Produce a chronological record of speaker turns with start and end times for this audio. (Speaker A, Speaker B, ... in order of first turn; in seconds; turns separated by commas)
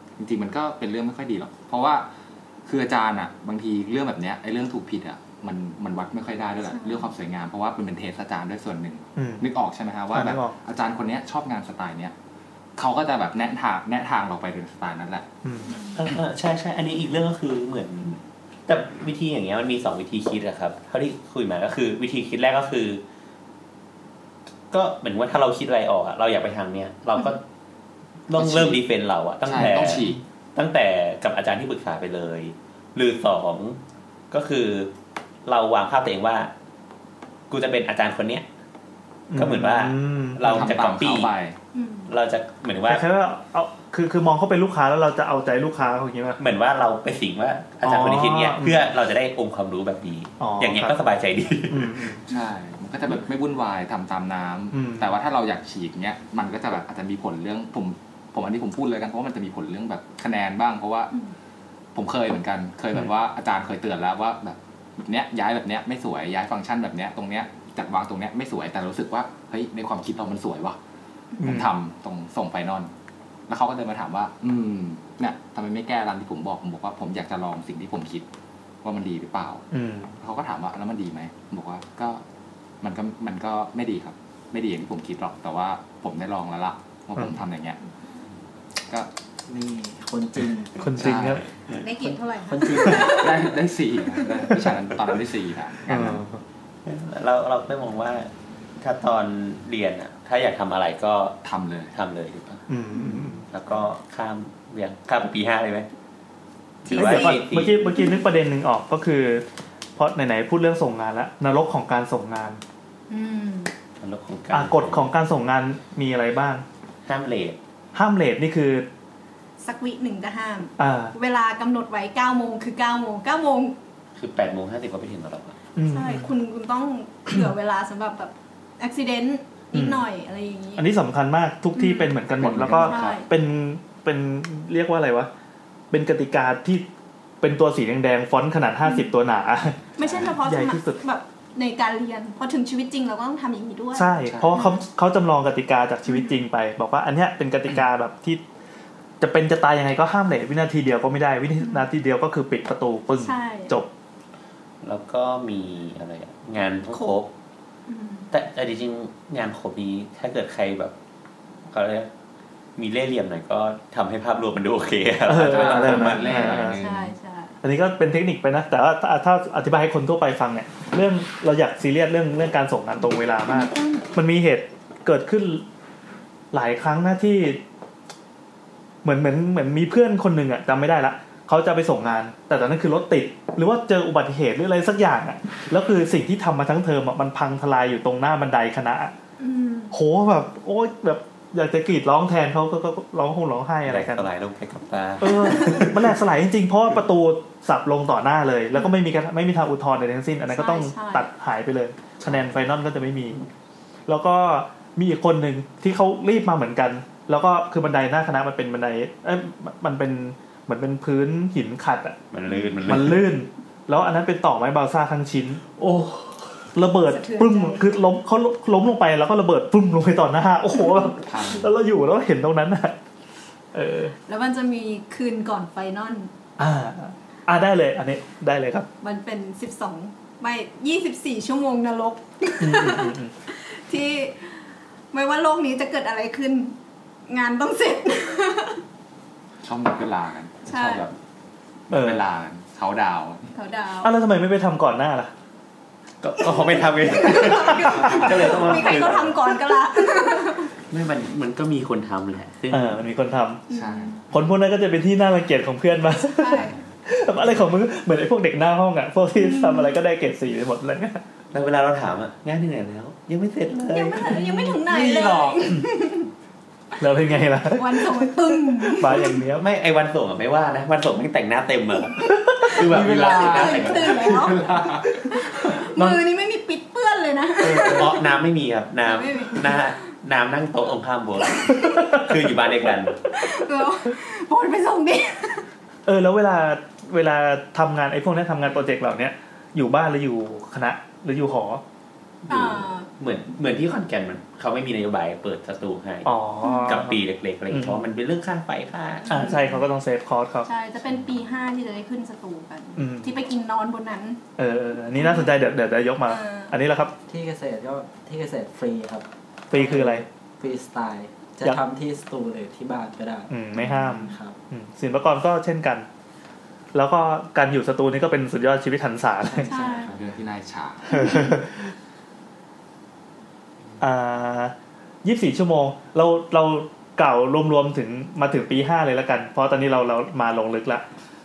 Speaker A: 0.2-2.1, Speaker A: 2.7-12.1, Speaker B: 6.7-7.1, Speaker C: 9.2-9.5, Speaker C: 10.1-10.6, Speaker A: 12.8-15.3, Speaker C: 15.4-15.8, Speaker B: 15.7-16.0, Speaker D: 16.0-23.0, Speaker D: 24.7-27.4, Speaker D: 28.3-33.8, Speaker A: 28.4-28.8, Speaker A: 29.4-30.2, Speaker C: 29.6-30.2, Speaker D: 34.3-34.9, Speaker D: 35.5-36.5, Speaker D: 37.5-38.5, Speaker C: 39.3-40.8, Speaker D: 39.4-41.3, Speaker A: 40.5-41.6, Speaker B: 41.7-42.1, Speaker D: 42.1-43.0, Speaker C: 42.9-46.4, Speaker D: 46.4-52.1, Speaker C: 47.8-48.9, Speaker C: 50.4-51.0, Speaker C: 51.7-52.2, Speaker A: 52.3-61.1, Speaker C: 54.7-55.1, Speaker A: 62.0-70.8, Speaker C: 71.4-71.7, Speaker A: 71.4-72.9, Speaker A: 73.5-78.3, Speaker A: 78.8-79.7, Speaker C: 79.7-80.1, Speaker A: 80.2-82.2, Speaker A: 82.8-87.8, Speaker C: 87.2-87.4, Speaker E: 89.5-90.7, Speaker C: 90.8-91.4, Speaker A: 91.0-91.4, Speaker B: 91.8-93.5, Speaker E: 92.0-93.5, Speaker A: 93.0-96.2, Speaker B: 94.2-94.4, Speaker C: 95.9-96.4, Speaker D: 96.8-98.3, Speaker D: 98.8-101.4, Speaker A: 101.4-101.9, Speaker D: 101.9-102.6, Speaker C: 102.7-103.5, Speaker B: 103.0-103.4, Speaker D: 103.5-105.9, Speaker D: 106.8-107.8, Speaker B: 106.9-107.4, Speaker C: 106.9-109.5, Speaker C: 110.0-112.6, Speaker B: 113.1-113.7, Speaker D: 114.0-115.1, Speaker C: 114.5-116.6, Speaker D: 117.1-117.6, Speaker C: 117.9-118.9, Speaker B: 119.6-123.8, Speaker C: 120.8-121.1, Speaker D: 124.2-125.6, Speaker C: 125.8-126.3, Speaker B: 125.8-130.9, Speaker C: 129.7-130.1, Speaker C: 130.8-135.3, Speaker B: 131.8-133.3, Speaker A: 132.4-133.2, Speaker C: 135.9-136.9, Speaker C: 137.4-141.0, Speaker B: 140.0-144.8, Speaker A: 140.0-140.3, Speaker C: 143.9-148.4, Speaker A: 144.3-144.6, Speaker B: 146.1-146.3, Speaker C: 149.2-153.9, Speaker B: 151.6-151.9, Speaker B: 153.2-153.8, Speaker D: 154.8-157.3, Speaker B: 156.9-157.2, Speaker B: 157.9-158.3, Speaker D: 158.3-160.9, Speaker D: 161.7-162.1, Speaker D: 162.8-166.7, Speaker C: 165.2-166.8, Speaker A: 165.3-167.1, Speaker B: 166.7-167.6, Speaker C: 167.6-175.7, Speaker B: 173.6-174.0, Speaker C: 176.5-177.6, Speaker C: 179.0-189.1, Speaker B: 189.4-189.9, Speaker C: 189.9-194.3, Speaker D: 193.9-196.1, Speaker C: 195.2-203.4, Speaker B: 200.5-201.3, Speaker C: 204.1-212.2, Speaker D: 212.3-213.2, Speaker C: 212.9-223.0, Speaker B: 217.0-217.9, Speaker A: 221.2-221.7, Speaker C: 223.7-224.1, Speaker B: 224.3-226.3, Speaker C: 226.6-228.9, Speaker B: 229.0-234.6, Speaker C: 232.6-233.3, Speaker B: 235.1-236.8, Speaker B: 237.3-238.8, Speaker A: 239.6-241.1, Speaker B: 240.7-241.1, Speaker A: 241.9-243.5, Speaker C: 241.9-242.2, Speaker B: 243.5-244.1, Speaker C: 244.0-245.3, Speaker D: 246.2-249.5, Speaker B: 247.1-250.7, Speaker A: 248.0-248.6, Speaker D: 250.9-253.0, Speaker C: 252.7-253.6, Speaker B: 253.7-254.2, Speaker A: 253.7-254.2, Speaker C: 254.3-261.2, Speaker B: 256.4-256.8, Speaker B: 259.4-259.9, Speaker D: 261.5-264.4, Speaker B: 263.7-266.3, Speaker A: 264.3-265.7, Speaker C: 267.0-269.6, Speaker B: 267.7-269.4, Speaker D: 269.6-274.4, Speaker A: 272.8-276.2, Speaker B: 273.0-278.3, Speaker C: 277.6-278.1, Speaker D: 277.9-283.2, Speaker B: 279.0-280.0, Speaker B: 281.6-282.2, Speaker B: 283.3-285.7, Speaker C: 286.1-291.8, Speaker D: 292.5-299.5, Speaker B: 292.5-293.1, Speaker C: 296.2-297.2, Speaker B: 296.6-297.1, Speaker C: 297.7-298.1, Speaker B: 299.2-299.9, Speaker C: 299.3-300.7, Speaker B: 300.6-304.4, Speaker C: 303.0-303.3, Speaker C: 304.6-307.1, Speaker B: 305.2-305.5, Speaker B: 306.3-306.7, Speaker E: 307.3-314.6, Speaker C: 309.7-310.2, Speaker C: 313.5-316.1, Speaker B: 313.8-314.3, Speaker C: 316.9-319.7, Speaker A: 319.5-321.4, Speaker B: 319.6-320.2, Speaker C: 321.1-321.9, Speaker B: 321.1-321.6, Speaker C: 324.0-331.0